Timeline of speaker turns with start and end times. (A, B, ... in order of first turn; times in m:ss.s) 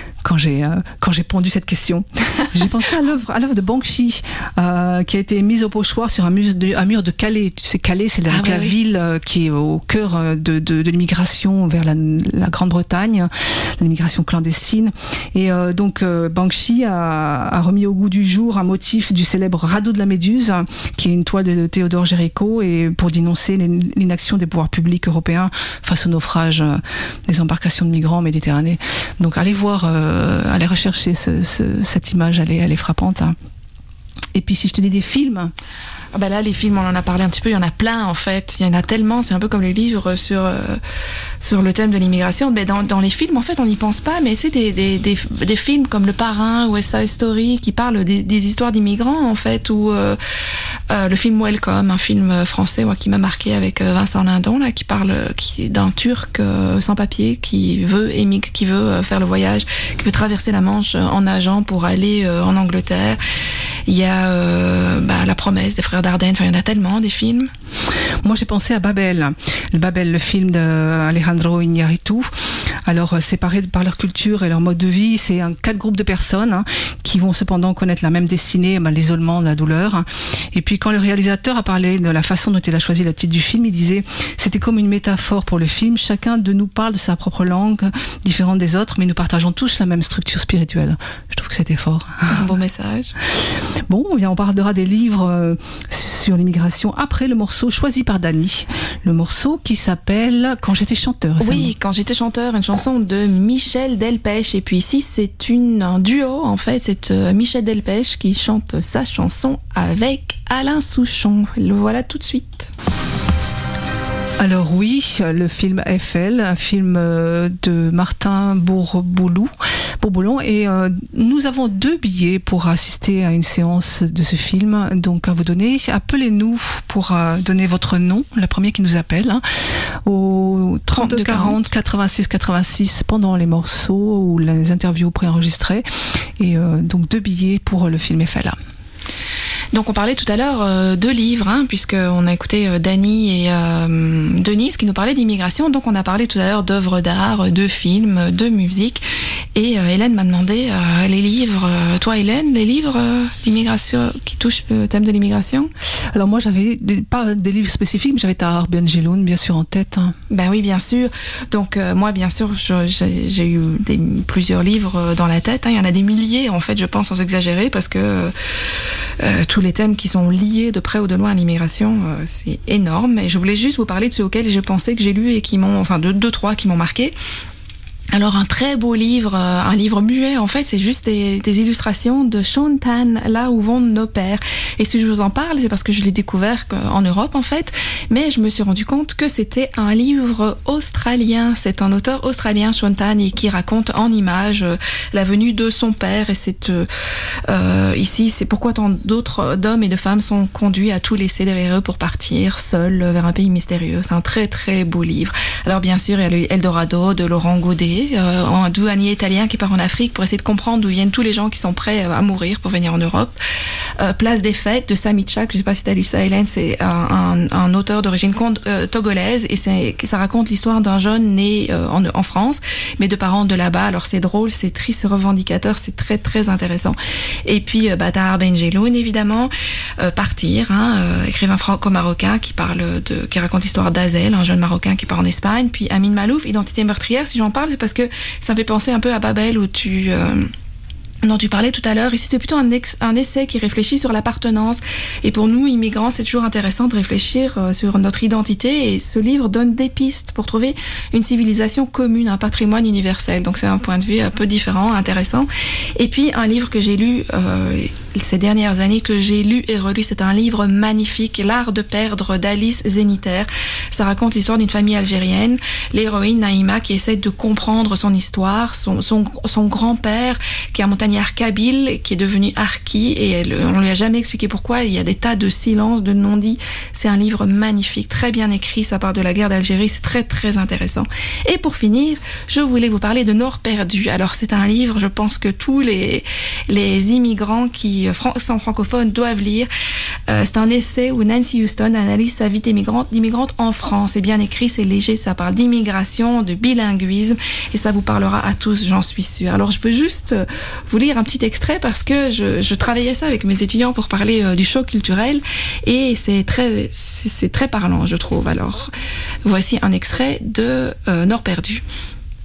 0:00.2-0:33.4 A
0:08.3-0:08.8 B
0:34.4-0:35.5 A
0:36.1-0:40.8 B
0:41.4-0:50.2 B
0:50.9-1:03.2 B
1:03.9-1:07.5 B
1:08.2-1:32.4 A
1:32.3-1:33.1 B
1:33.9-1:41.7 A
1:41.4-1:52.7 B
1:54.4-2:09.4 A
2:10.0-2:15.8 A
2:10.9-2:11.6 B
2:16.4-2:18.6 A
2:19.7-2:35.7 B
2:36.1-2:40.2 A
2:40.3-2:48.3 B
2:49.2-2:57.2 B
2:58.1-3:16.9 B
3:17.5-3:33.4 B
3:34.0-4:00.5 B
4:01.2-4:49.7 B
4:50.3-5:08.9 B
5:09.4-5:11.8 B